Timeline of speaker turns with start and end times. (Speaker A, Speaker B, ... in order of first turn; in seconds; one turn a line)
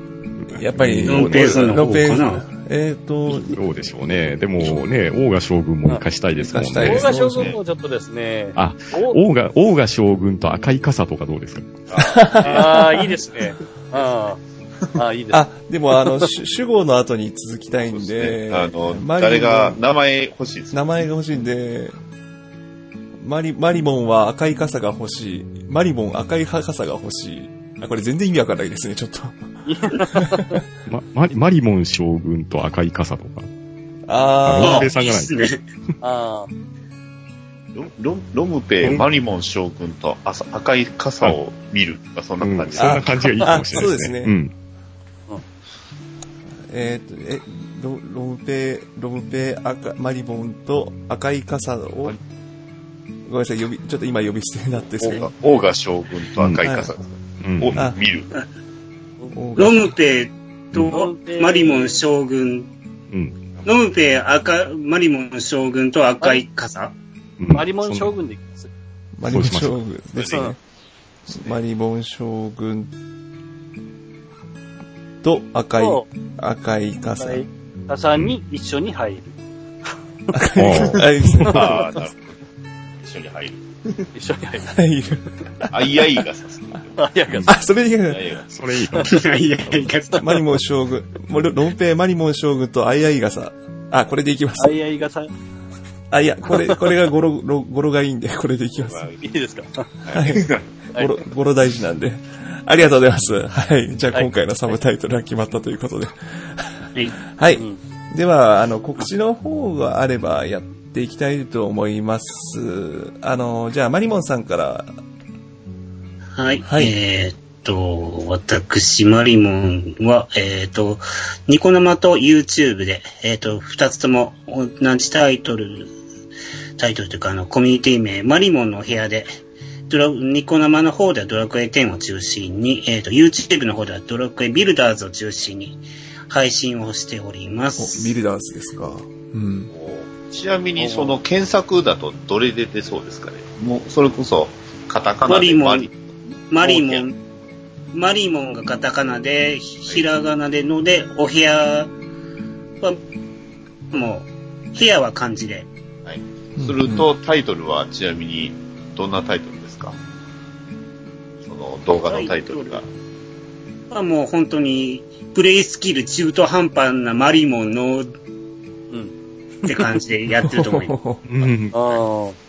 Speaker A: 0.5-3.6
Speaker B: 0.8-2.0
Speaker C: 1.1-2.4
Speaker B: 3.3-7.1
Speaker A: 6.4-7.6
Speaker D: 6.8-9.2
Speaker E: 7.3-7.6
Speaker B: 8.6-11.8
Speaker E: 11.9-12.7
Speaker A: 12.1-12.9
Speaker D: 12.4-14.4
Speaker D: 14.9-16.3
Speaker A: 15.3-19.8
Speaker E: 17.9-21.0
Speaker A: 20.7-21.9
Speaker A: 23.2-29.4
Speaker D: 29.7-30.6
Speaker A: 30.0-30.6
Speaker B: 30.9-33.5
Speaker A: 34.1-34.9
Speaker B: 34.4-35.4
Speaker C: 34.6-35.6
Speaker D: 36.0-36.5
Speaker E: 37.8-43.9
Speaker B: 42.4-44.5
Speaker A: 42.8-44.4
Speaker A: 46.7-52.2
Speaker A: 53.3-55.3
Speaker E: 55.0-58.3
Speaker A: 56.5-56.9
Speaker B: 57.4-57.8
Speaker A: 59.3-59.9
Speaker C: 59.6-62.7
Speaker D: 60.9-62.0
Speaker B: 63.1-63.4
Speaker C: 63.6-66.9
Speaker B: 67.4-68.1
Speaker D: 67.5-68.7
Speaker A: 69.2-70.6
Speaker B: 69.3-69.8
Speaker E: 70.2-70.5
Speaker E: 71.3-71.6
Speaker A: 71.3-72.9
Speaker A: 75.2-77.5
Speaker D: 75.8-76.0
Speaker D: 77.2-79.4
Speaker A: 80.3-81.9
Speaker B: 80.6-81.1
Speaker E: 80.8-82.4
Speaker E: 83.0-84.1
Speaker D: 84.2-84.7
Speaker A: 84.7-86.1
Speaker E: 85.7-87.5
Speaker D: 87.0-87.6
Speaker A: 87.5-88.3
Speaker E: 88.1-88.5
Speaker B: 88.5-89.3
Speaker C: 89.0-90.4
Speaker A: 90.2-94.8
Speaker D: 94.6-95.3
Speaker A: 96.1-99.1
Speaker E: 98.8-99.2
Speaker D: 99.2-99.9
Speaker E: 100.0-100.6
Speaker A: 100.1-114.9
Speaker D: 107.5-107.8
Speaker C: 116.4-125.9
Speaker A: 116.7-116.9
Speaker C: 126.8-129.3
Speaker C: 129.9-138.2
Speaker A: 137.8-139.7
Speaker E: 139.7-146.0
Speaker D: 140.8-141.2
Speaker C: 145.3-145.9
Speaker C: 146.5-147.1
Speaker E: 146.6-147.0
Speaker C: 147.9-151.9
Speaker C: 153.9-155.7
Speaker E: 156.1-160.0
Speaker A: 156.6-157.1
Speaker E: 161.4-162.9
Speaker C: 162.1-162.8
Speaker C: 163.9-168.1
Speaker C: 169.6-171.0
Speaker A: 170.4-171.2
Speaker B: 171.3-171.8
Speaker D: 171.7-172.4